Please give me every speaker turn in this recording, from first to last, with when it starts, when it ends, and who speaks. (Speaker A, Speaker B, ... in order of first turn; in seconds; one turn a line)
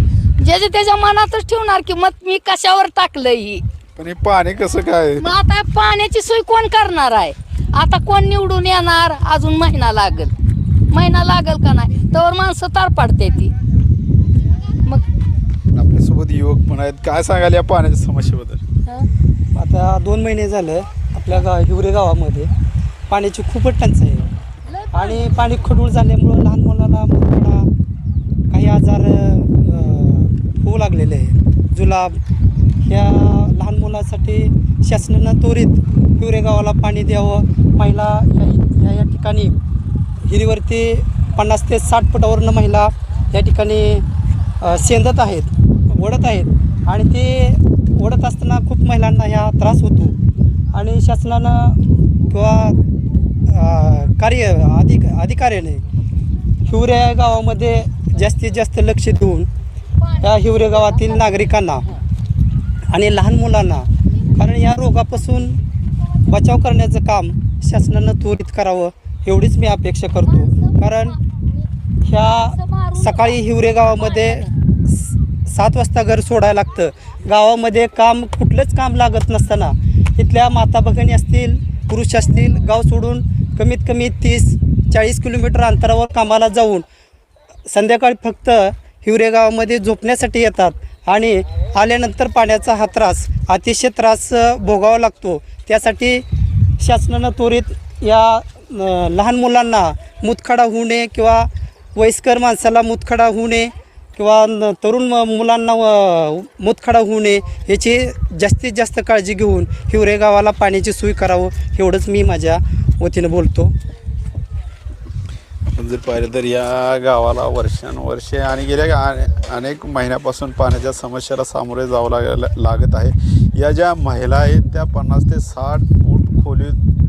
Speaker A: 0.4-3.6
Speaker B: 4.0-5.2
Speaker A: 5.2-10.3
Speaker A: 10.9-13.5
Speaker B: 15.7-18.6
Speaker C: 19.5-22.5
Speaker C: 23.1-24.3
Speaker A: 24.6-25.3
Speaker C: 24.9-27.7
Speaker C: 28.5-32.2
Speaker C: 32.8-39.6
Speaker C: 40.2-44.0
Speaker C: 44.6-50.1
Speaker C: 50.7-52.8
Speaker C: 53.5-55.8
Speaker C: 56.6-59.5
Speaker A: 60.0-61.1
Speaker C: 60.2-61.8
Speaker C: 62.9-65.6
Speaker C: 66.2-71.2
Speaker A: 70.3-71.2
Speaker C: 72.0-86.8
Speaker A: 72.1-74.5
Speaker C: 87.7-96.2
Speaker C: 96.8-113.7
Speaker B: 115.7-126.8